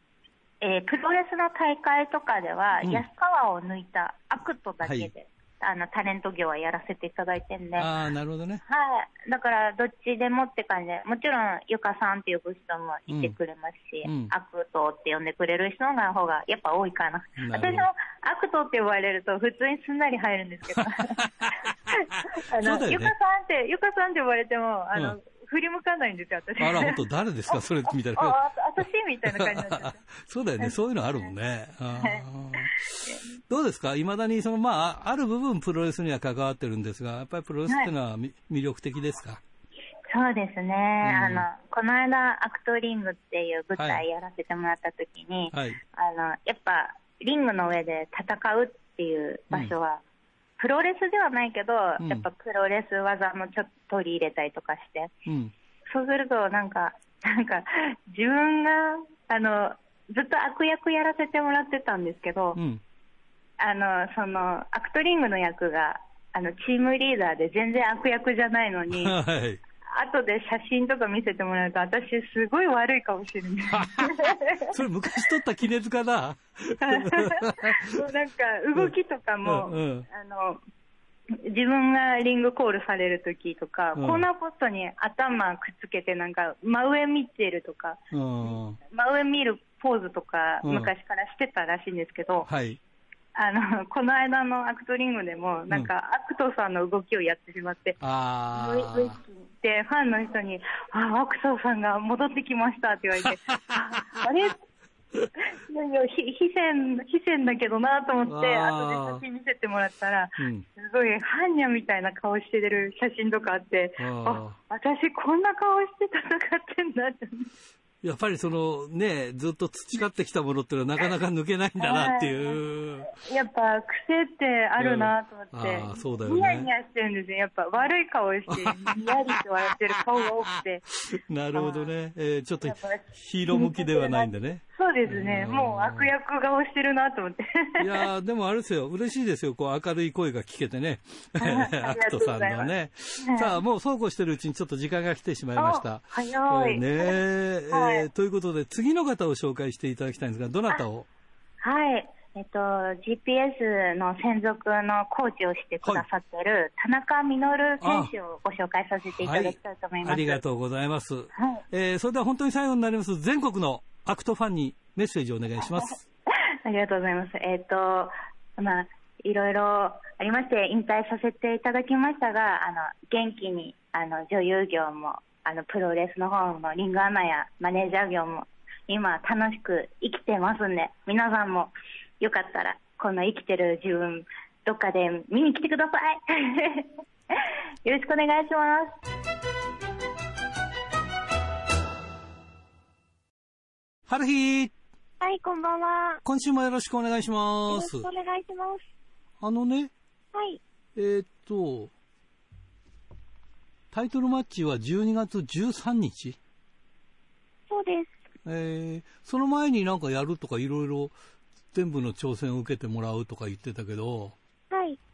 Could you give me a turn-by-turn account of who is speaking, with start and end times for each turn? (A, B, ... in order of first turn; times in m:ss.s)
0:00.6-0:07.9 A
0:02.8-0:03.1 B
0:04.8-0:05.1 B
0:07.8-0:08.6 B
0:08.7-0:27.0 A
0:13.1-0:13.4 B
0:14.0-0:14.3 B
0:17.4-0:17.9 B
0:20.8-0:23.1 B
0:26.6-0:28.4 B
0:27.5-0:30.0 A
0:29.3-0:39.4 B
0:30.6-0:31.3 A
0:31.9-0:33.2 A
0:40.1-0:50.0 A
0:41.0-0:41.5 B
0:43.8-0:44.0 B
0:45.5-0:45.8 B
0:50.6-0:55.1 A
0:52.0-0:52.3 B
0:55.3-0:55.5 B
0:55.9-1:02.6 A
1:02.6-1:02.8 B
1:03.6-1:09.2 A
1:08.9-1:09.6 B
1:09.9-1:14.8 A
1:13.7-1:18.1 B
1:16.8-1:20.6 A
1:18.8-1:20.1 B
1:21.4-1:32.5 A
1:24.0-1:24.3 B
1:28.1-1:28.8 B
1:30.6-1:30.9 B
1:32.5-1:32.8 B
1:33.4-1:38.0 A
1:38.0-1:39.2 B
1:38.5-1:44.6 A
1:43.2-1:44.2 B
1:45.4-1:57.5 A
1:48.3-1:49.2 B
1:50.4-1:50.7 B
1:54.0-1:54.6 B
1:58.0-2:03.1 B
2:01.8-2:10.9 A
2:04.8-2:06.7 B
2:08.5-2:09.4 B
2:11.1-2:16.1 B
2:11.5-2:11.9 A
2:12.6-2:18.1 A
2:17.8-2:31.1 B
2:21.4-2:23.6 A
2:25.6-2:27.2 A
2:27.7-2:28.1 A
2:31.6-2:40.4 A
2:37.8-2:38.1 B
2:39.2-2:46.0 B
2:41.4-2:41.6 A
2:46.5-3:09.0 A
3:14.1-3:14.7 B
3:15.2-3:16.2 C
3:16.2-3:18.1 B
3:17.7-3:18.8 C
3:19.4-3:19.9 B
3:20.3-3:20.6 C
3:21.0-3:21.9 B
3:23.9-3:26.4 B
3:27.7-3:28.1 C
3:28.4-3:31.2 B
3:31.7-3:34.4 B
3:34.7-3:35.0 C